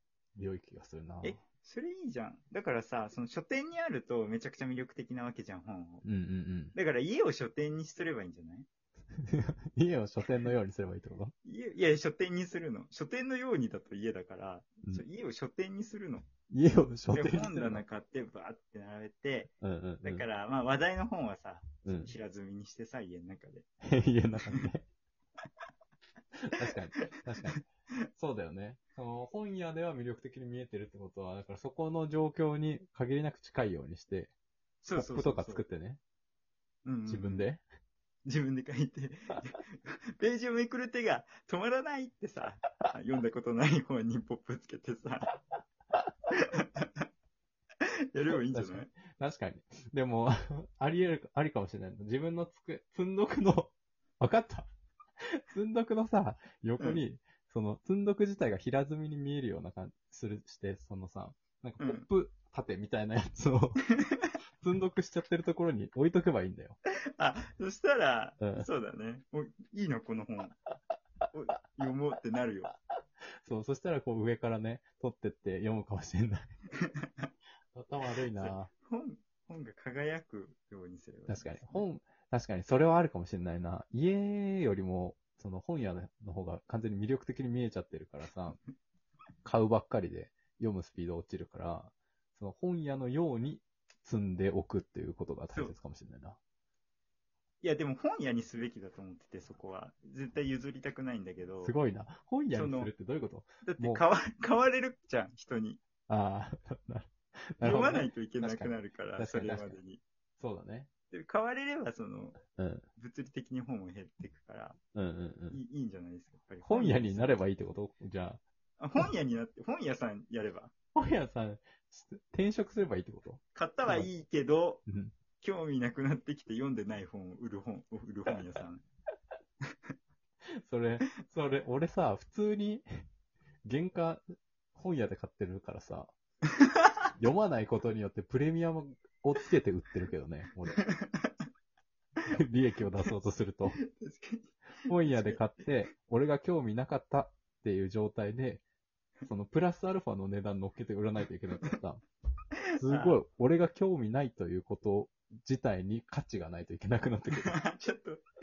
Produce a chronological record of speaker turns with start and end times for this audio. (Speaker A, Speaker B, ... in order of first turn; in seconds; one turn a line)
Speaker A: 0.4-1.4
Speaker B: 1.2-6.0
Speaker A: 6.0-6.8
Speaker B: 6.7-8.7
Speaker A: 9.3-11.3
Speaker B: 11.4-16.3
Speaker A: 16.5-17.8
Speaker B: 17.1-23.7
Speaker A: 19.6-20.2
Speaker A: 21.9-22.1
Speaker A: 23.8-24.9
Speaker A: 26.5-27.6
Speaker B: 27.0-27.6
Speaker A: 28.2-34.3
Speaker B: 34.8-35.6
Speaker A: 34.9-36.0
Speaker B: 36.9-37.5
Speaker A: 37.1-37.6
Speaker B: 38.3-45.4
Speaker B: 46.6-46.9
Speaker B: 47.8-48.9
Speaker A: 48.3-54.7
Speaker A: 55.3-63.9
Speaker B: 61.8-62.1
Speaker B: 63.9-64.3
Speaker A: 64.6-66.8
Speaker B: 66.9-70.6
Speaker A: 68.4-68.7
Speaker B: 71.3-72.7
Speaker A: 73.5-76.5
Speaker B: 76.8-77.3
Speaker A: 77.7-78.7
Speaker B: 78.3-81.8
Speaker A: 81.3-88.6
Speaker A: 89.4-96.4
Speaker B: 95.5-95.8
Speaker B: 97.6-101.8
Speaker A: 101.6-104.0
Speaker B: 102.5-102.9
Speaker B: 103.7-105.8
Speaker A: 106.1-109.8
Speaker B: 107.6-110.0
Speaker A: 110.4-110.9
Speaker B: 111.1-112.4
Speaker A: 112.6-112.8
Speaker B: 113.0-114.8
Speaker A: 114.9-115.6
Speaker B: 115.5-117.4
Speaker A: 116.6-118.4
Speaker B: 118.8-120.7
Speaker A: 121.0-124.1
Speaker B: 123.5-124.8
Speaker A: 124.9-125.1
Speaker B: 125.4-128.8
Speaker A: 130.6-132.8
Speaker A: 133.7-136.1
Speaker A: 137.2-140.8
Speaker B: 140.8-141.4
Speaker A: 142.3-143.8
Speaker B: 143.7-145.4
Speaker A: 144.9-148.6
Speaker A: 149.2-152.1
Speaker A: 152.8-157.6
Speaker B: 152.8-153.2
Speaker B: 157.3-158.2